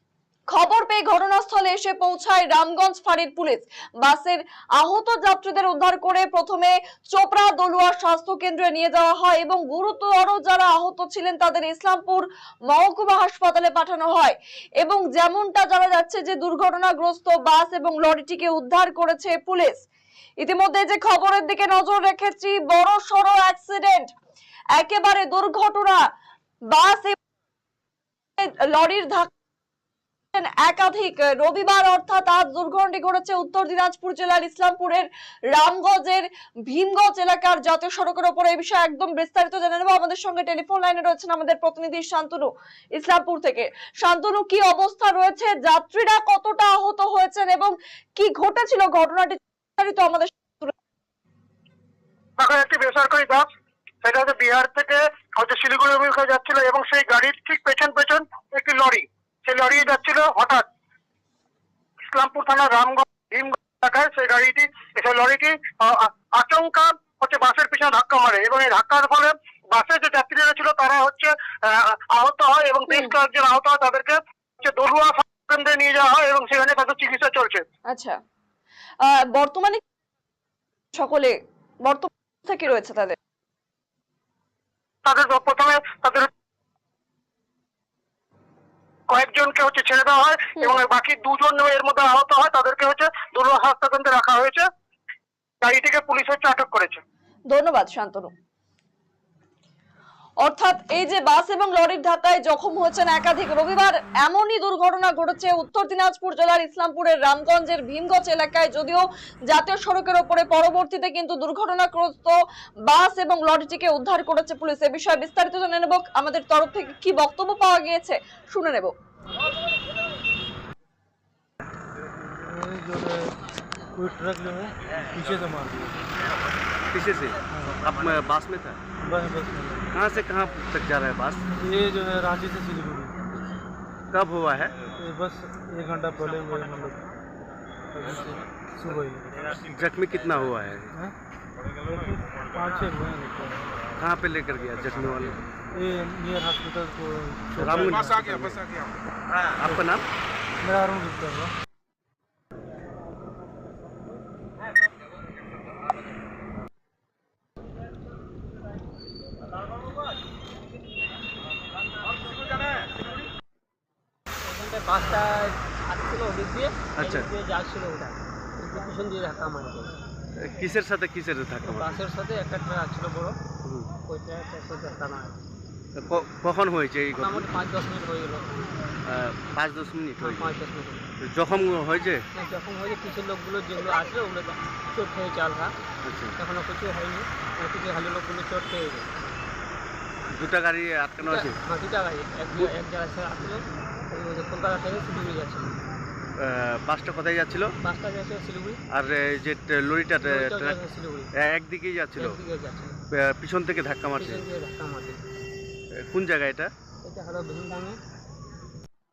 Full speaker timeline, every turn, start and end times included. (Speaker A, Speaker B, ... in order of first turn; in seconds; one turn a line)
Speaker A: 0.5-19.9
Speaker A: 20.4-24.1
Speaker A: 24.8-26.0
Speaker A: 26.7-27.2
Speaker A: 28.4-29.3
Speaker A: 30.3-50.7
Speaker B: 52.4-53.5
Speaker B: 54.0-60.6
Speaker B: 62.1-77.7
Speaker A: 77.9-78.2
Speaker A: 79.0-79.8
Speaker A: 80.9-83.2
Speaker B: 85.0-86.3
Speaker B: 89.1-94.7
Speaker B: 95.6-97.0
Speaker A: 97.5-98.3
Speaker A: 100.4-112.3
Speaker A: 112.9-118.9
Speaker C: 122.3-123.4
Speaker C: 123.9-126.1
Speaker D: 126.9-128.8
Speaker C: 127.5-127.8
Speaker C: 129.0-129.9
Speaker D: 129.9-131.4
Speaker C: 131.6-133.2
Speaker D: 134.1-134.8
Speaker C: 134.9-137.1
Speaker C: 137.9-139.5
Speaker D: 139.7-140.9
Speaker C: 141.8-143.6
Speaker D: 144.0-145.4
Speaker C: 145.7-148.2
Speaker D: 147.6-148.7
Speaker D: 149.6-150.1
Speaker C: 150.6-151.5
Speaker E: 164.5-169.9
Speaker D: 167.0-167.3
Speaker D: 170.3-172.0
Speaker E: 171.6-173.4
Speaker D: 173.6-173.9
Speaker E: 174.1-175.4
Speaker D: 176.0-177.5
Speaker E: 177.2-178.5
Speaker D: 179.1-180.6
Speaker E: 180.2-181.1
Speaker D: 181.2-182.2
Speaker E: 182.3-185.7
Speaker D: 186.0-186.4
Speaker E: 186.4-189.1
Speaker D: 190.3-191.6
Speaker E: 191.2-195.8
Speaker D: 196.4-197.7
Speaker E: 197.8-198.8
Speaker D: 198.9-200.8
Speaker E: 200.2-201.3
Speaker D: 201.4-202.4
Speaker E: 202.2-203.0
Speaker D: 203.1-204.4
Speaker E: 204.2-205.2
Speaker D: 205.9-206.7
Speaker E: 207.0-208.0